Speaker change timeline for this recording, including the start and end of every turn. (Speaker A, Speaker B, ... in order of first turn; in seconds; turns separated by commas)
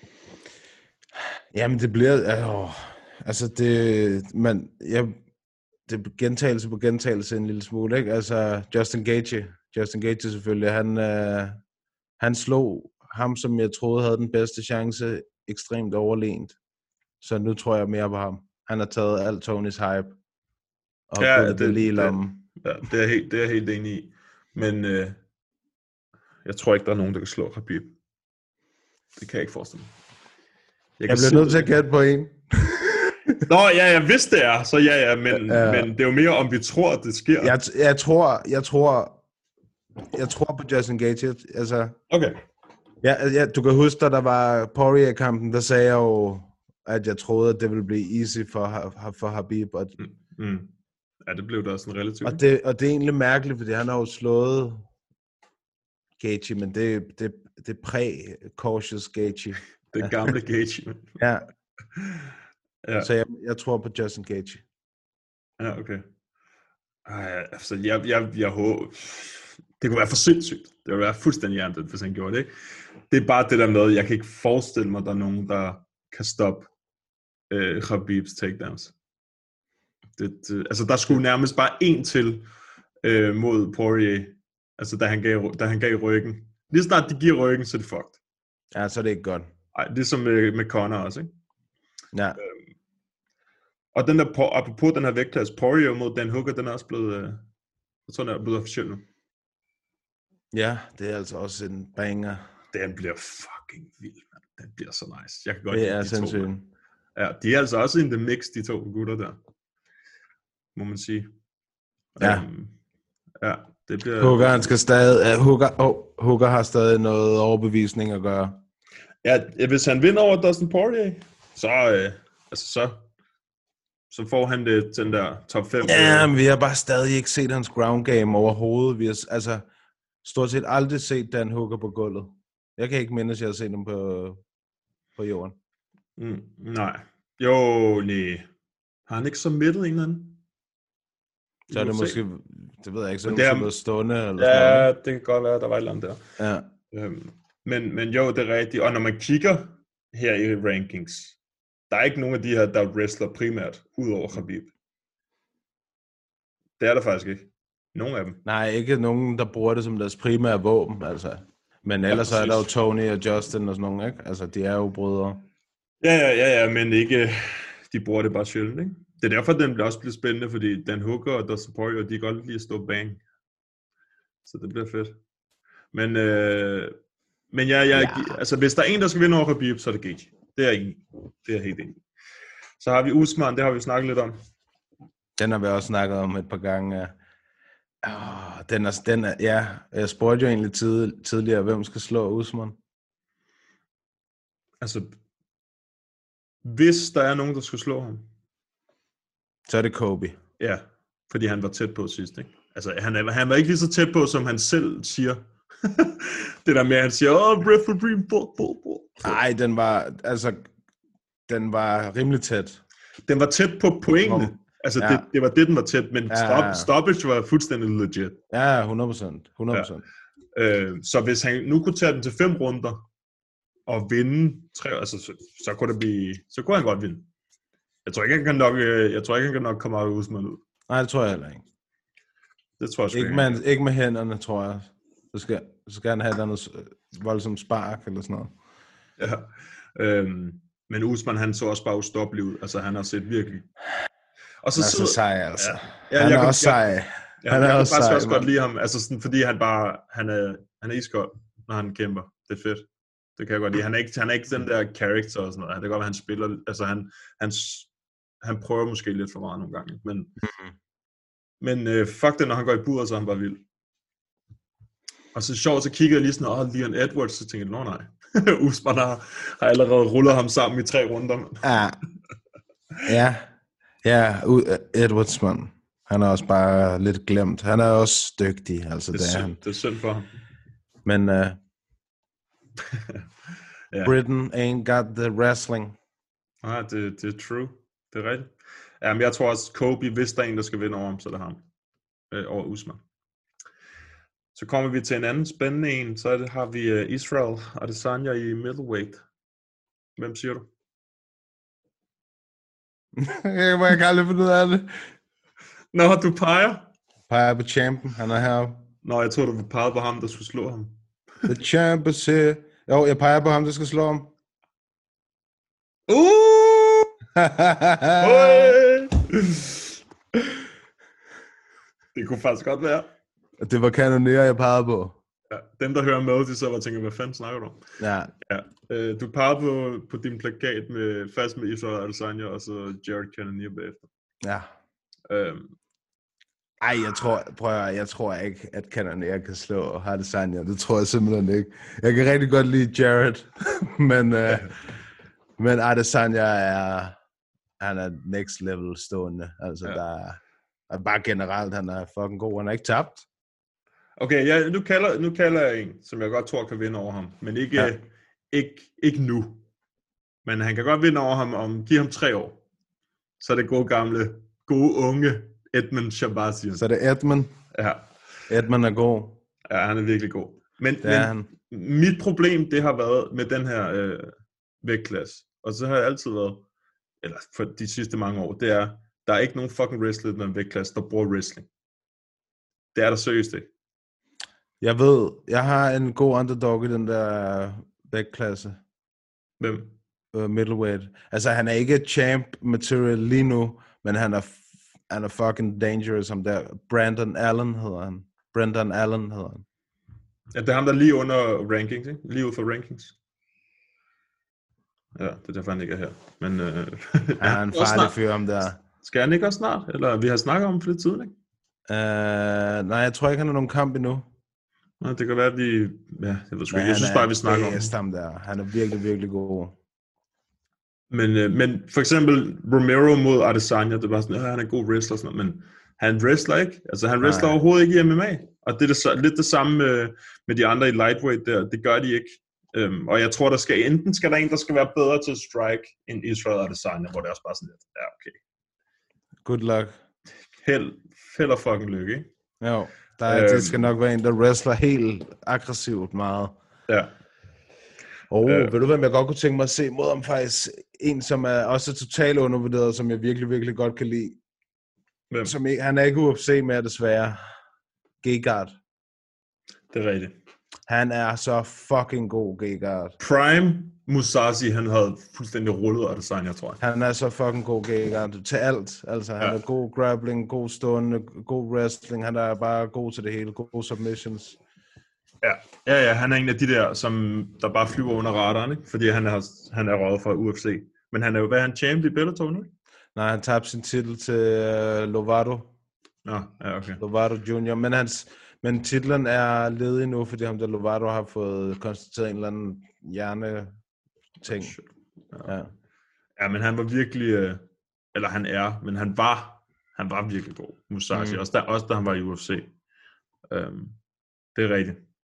Speaker A: 1.5-5.2, Speaker A: 5.9-11.6, Speaker A: 12.2-16.6, Speaker A: 17.2-20.2, Speaker A: 21.1-22.4, Speaker B: 21.2-25.2, Speaker B: 26.4-27.9, Speaker B: 29.2-29.9, Speaker B: 31.0-31.7, Speaker A: 31.1-33.4, Speaker B: 33.5-37.5, Speaker A: 35.3-35.9, Speaker A: 37.4-39.2, Speaker A: 40.1-42.0, Speaker B: 42.1-42.4, Speaker A: 43.0-50.0, Speaker B: 50.0-50.7, Speaker B: 51.3-52.4, Speaker A: 52.2-54.9, Speaker A: 56.2-60.1, Speaker B: 59.9-61.1, Speaker A: 61.2-61.4, Speaker B: 62.8-63.1, Speaker A: 63.0-64.6, Speaker B: 65.6-66.0, Speaker B: 67.1-72.5, Speaker B: 73.1-76.7, Speaker B: 77.5-78.9, Speaker B: 80.2-82.5, Speaker B: 83.0-88.2, Speaker A: 88.8-89.5, Speaker B: 89.8-91.3, Speaker A: 92.1-92.4, Speaker B: 93.9-97.4, Speaker B: 98.1-99.1, Speaker A: 100.5-102.4, Speaker B: 102.7-106.5, Speaker A: 105.7-106.7, Speaker B: 107.2-109.4, Speaker B: 110.8-111.3, Speaker B: 112.2-112.7, Speaker A: 112.2-112.5, Speaker B: 113.4-114.6, Speaker A: 114.2-118.6, Speaker B: 119.2-123.0, Speaker B: 124.1-126.3, Speaker A: 125.8-129.7, Speaker A: 130.2-134.4, Speaker A: 135.2-135.6, Speaker B: 136.2-138.5, Speaker B: 139.1-140.4, Speaker B: 141.7-142.2, Speaker A: 141.7-144.9, Speaker B: 143.2-143.7, Speaker B: 144.4-146.2, Speaker A: 146.4-146.7, Speaker B: 146.9-151.4, Speaker B: 151.9-154.7, Speaker B: 156.8-158.4, Speaker A: 158.4-165.4, Speaker B: 162.1-162.7, Speaker B: 166.0-173.2, Speaker B: 174.4-175.2, Speaker B: 175.9-176.9, Speaker B: 177.5-182.0, Speaker A: 177.9-178.4, Speaker B: 182.8-184.4, Speaker A: 185.4-187.2, Speaker A: 188.0-192.8, Speaker B: 194.8-195.1, Speaker B: 196.6-198.3, Speaker A: 199.7-200.4, Speaker B: 200.6-209.4, Speaker A: 209.2-210.7, Speaker A: 211.5-212.8, Speaker B: 213.3-218.4, Speaker A: 214.3-215.2, Speaker A: 216.3-216.9, Speaker A: 218.5-220.0, Speaker B: 220.6-223.0, Speaker B: 223.9-227.3, Speaker B: 228.1-230.6, Speaker A: 230.9-231.6, Speaker B: 232.8-233.6, Speaker A: 233.1-238.5, Speaker B: 239.2-243.7, Speaker B: 244.6-246.8, Speaker A: 244.8-248.5, Speaker B: 247.4-257.9, Speaker B: 258.4-260.3, Speaker A: 260.4-260.7, Speaker B: 261.6-263.6, Speaker B: 265.3-271.6, Speaker A: 271.6-272.0, Speaker A: 273.1-273.5, Speaker A: 274.0-279.6, Speaker B: 279.1-280.3, Speaker A: 281.1-281.6, Speaker A: 284.0-286.0, Speaker B: 286.6-288.5, Speaker B: 289.0-291.6, Speaker B: 292.3-293.0, Speaker B: 294.5-299.2, Speaker B: 300.2-300.7, Speaker A: 303.2-305.0, Speaker B: 305.9-306.9, Speaker A: 307.3-308.9, Speaker B: 309.0-311.0, Speaker A: 311.5-314.3, Speaker B: 316.1-317.1, Speaker A: 317.4-318.8, Speaker B: 318.2-319.8, Speaker B: 322.1-323.1, Speaker A: 323.6-325.2, Speaker B: 325.5-327.8, Speaker A: 328.0-328.3, Speaker B: 328.4-334.1, Speaker A: 334.4-334.7, Speaker B: 335.3-335.8, Speaker A: 336.8-344.7, Speaker A: 345.6-347.1, Speaker A: 347.8-350.4, Speaker A: 350.9-353.3, Speaker B: 354.2-359.6, Speaker B: 360.4-362.6, Speaker B: 363.4-366.8, Speaker A: 366.8-367.5, Speaker B: 367.7-368.1, Speaker A: 368.5-369.4, Speaker B: 369.7-376.6, Speaker A: 371.0-371.5, Speaker B: 377.2-381.7, Speaker B: 382.9-383.7, Speaker A: 384.8-388.8, Speaker B: 389.6-389.9, Speaker A: 390.3-399.6, Speaker B: 400.5-403.1, Speaker B: 405.2-408.2, Speaker A: 407.4-408.8, Speaker B: 409.0-411.3, Speaker A: 411.9-414.3, Speaker B: 415.0-417.9, Speaker A: 416.7-419.7, Speaker B: 421.1-438.4, Speaker A: 427.2-427.6, Speaker A: 439.4-439.9, Speaker B: 440.6-442.3, Speaker A: 442.6-446.6, Speaker B: 443.3-443.9, Speaker A: 448.3-454.4, Speaker B: 448.4-448.7, Speaker A: 455.4-457.4, Speaker A: 458.2-458.8, Speaker B: 459.9-460.4, Speaker A: 460.9-463.1, Speaker B: 463.2-466.8, Speaker A: 466.8-474.6, Speaker B: 475.4-482.7, Speaker A: 483.1-485.7, Speaker B: 486.2-487.0, Speaker A: 487.0-493.7, Speaker A: 494.4-494.7, Speaker B: 494.5-495.5, Speaker A: 495.5-495.7, Speaker B: 496.4-502.7, Speaker A: 501.1-501.4, Speaker B: 503.5-504.0, Speaker B: 504.6-505.0